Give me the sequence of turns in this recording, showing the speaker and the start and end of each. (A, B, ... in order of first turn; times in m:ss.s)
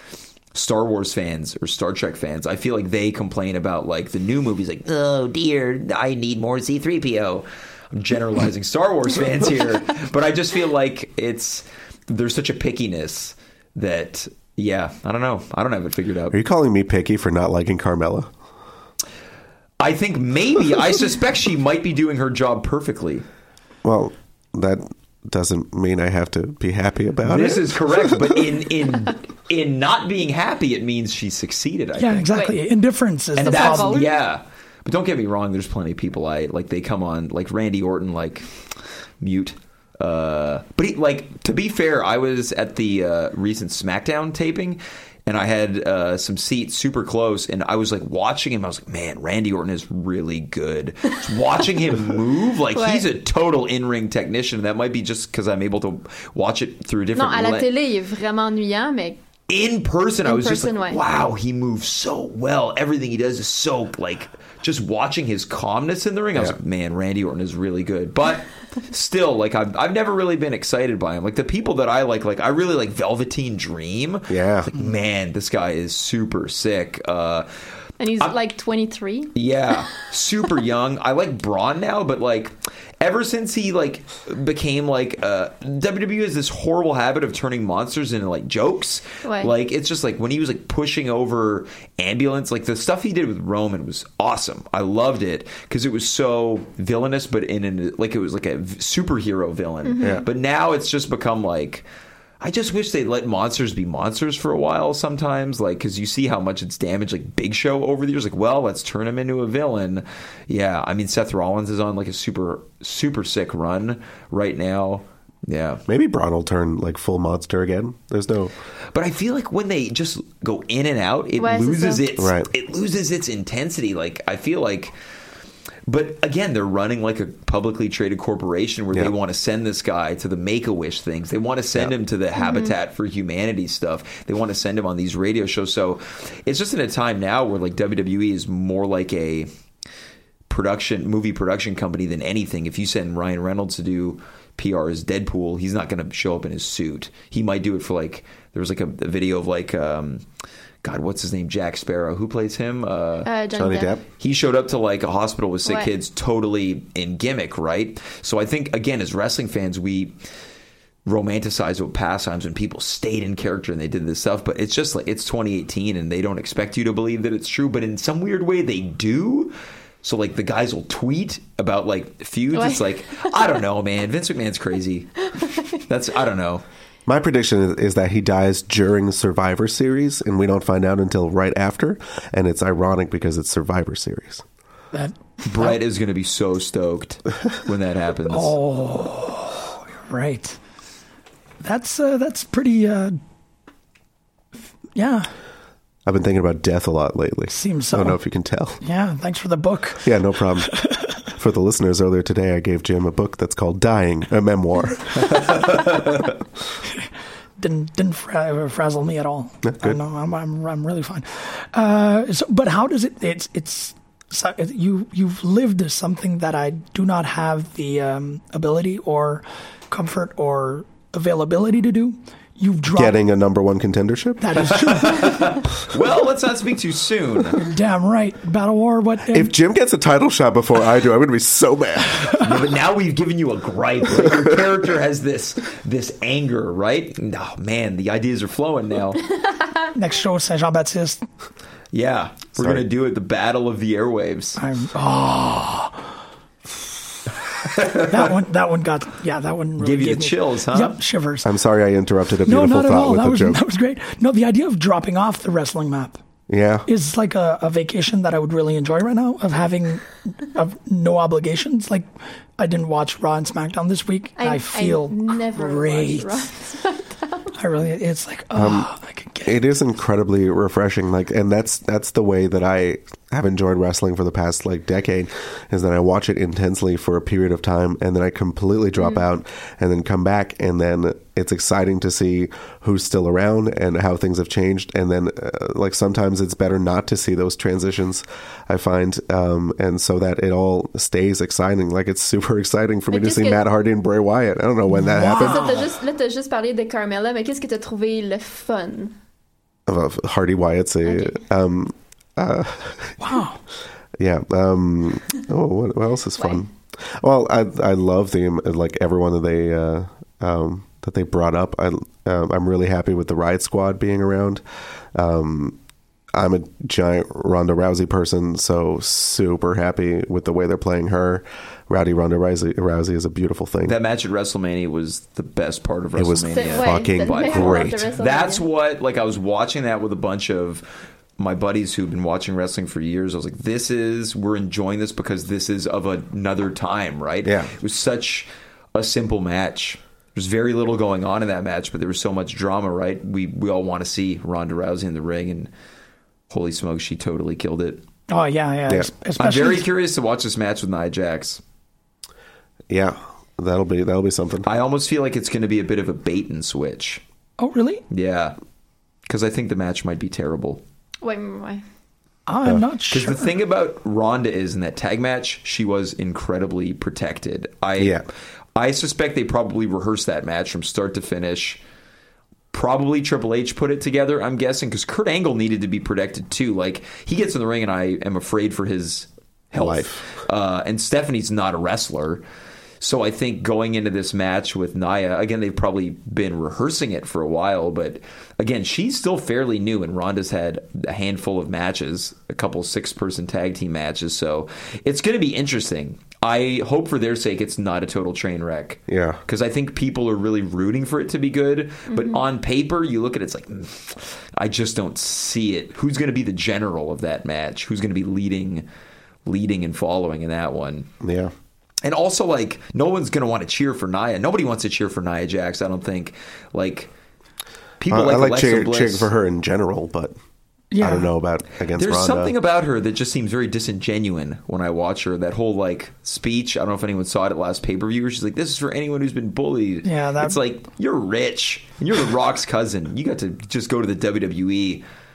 0:00.5-0:16.4 A
0:16.3-0:18.3 B
0:19.8-0:23.2 A
0:23.8-0:28.4 B
0:27.2-0:32.4 A
0:32.0-0:34.0 C
0:32.3-0:32.6 D
0:33.4-0:34.2 D
0:33.4-0:38.6 A
0:39.2-0:57.7 A
0:52.7-0:53.0 D
0:57.2-0:59.2 D
0:59.5-1:17.5 A
1:00.2-1:01.0 D
1:14.3-1:14.7 B
1:18.0-1:19.8 D
1:19.3-1:41.8 A
1:29.2-1:29.5 D
1:39.8-1:40.2 D
1:42.4-1:55.8 A
1:55.9-1:58.5 B
1:58.9-2:04.9 A
2:01.4-2:02.0 D
2:02.2-2:02.5 B
2:05.9-2:19.5 A
2:12.4-2:12.7 D
2:20.5-2:30.2 A
2:30.8-2:33.3 A
2:33.2-2:33.9 D
2:33.5-2:34.0 B
2:34.2-2:40.1 A
2:41.0-2:55.3 A
2:52.5-2:53.2 D
2:55.8-2:56.6 A
2:57.1-3:04.4 B
3:04.9-3:05.8 C
3:05.4-3:08.5 A
3:08.3-3:10.6 C
3:11.6-3:13.2 C
3:14.9-3:15.3 C
3:16.0-3:18.8 B
3:17.5-3:18.2 C
3:18.8-3:20.1 C
3:20.0-3:20.7 B
3:20.6-3:21.1 C
3:21.3-3:25.5 B
3:25.3-3:25.8 A
3:27.6-3:43.2 C
3:29.6-3:30.0 B
3:42.9-3:44.7 B
3:44.4-3:45.5 C
3:44.8-3:47.6 A
3:47.6-3:49.5 C
3:49.3-3:52.3 B
3:52.3-3:59.2 A
3:59.9-4:01.2 C
4:01.9-4:04.6 A
4:02.6-4:02.8 B
4:04.6-4:06.1 C
4:07.7-4:08.2 A
4:07.9-4:11.5 C
4:09.8-4:11.0 A
4:11.4-4:13.6 B
4:12.4-4:16.2 C
4:16.5-4:16.9 B
4:16.9-4:22.0 C
4:22.6-4:26.4 C
4:24.4-4:27.5 D
4:27.6-4:29.6 C
4:28.5-4:28.9 B
4:29.4-4:55.8 B
4:39.0-4:39.2 D
4:53.1-4:53.6 D
4:54.9-4:55.8 C
4:55.4-4:59.1 D
4:59.9-5:03.2 B
5:01.0-5:01.4 D
5:03.2-5:03.6 C
5:04.2-5:14.6 B
5:15.1-5:15.8 B
5:16.3-5:24.0 B
5:23.8-5:30.8 A
5:26.1-5:28.1 B
5:26.5-5:28.6 D
5:31.4-5:45.7 A
5:37.4-5:37.7 B
5:46.5-5:48.0 A
5:48.3-5:49.8 C
5:49.4-5:51.6 A
5:52.9-5:54.7 B
5:54.6-5:57.2 A
5:57.6-5:58.0 C
5:58.1-5:58.6 A
5:59.3-6:00.8 A
6:01.2-6:01.8 D
6:02.5-6:03.5 C
6:03.1-6:08.2 A
6:08.0-6:08.2 B
6:08.8-6:11.8 A
6:12.7-6:22.4 A
6:19.7-6:20.3 B
6:23.0-6:48.8 A
6:39.1-6:39.4 B
6:42.1-6:42.4 D
6:49.4-6:51.1 A
6:51.2-6:51.5 B
6:52.0-6:57.1 A
6:58.0-6:59.3 A
6:58.1-7:00.3 B
7:00.9-7:01.3 C
7:01.0-7:02.5 B
7:01.9-7:15.0 A
7:10.0-7:10.6 C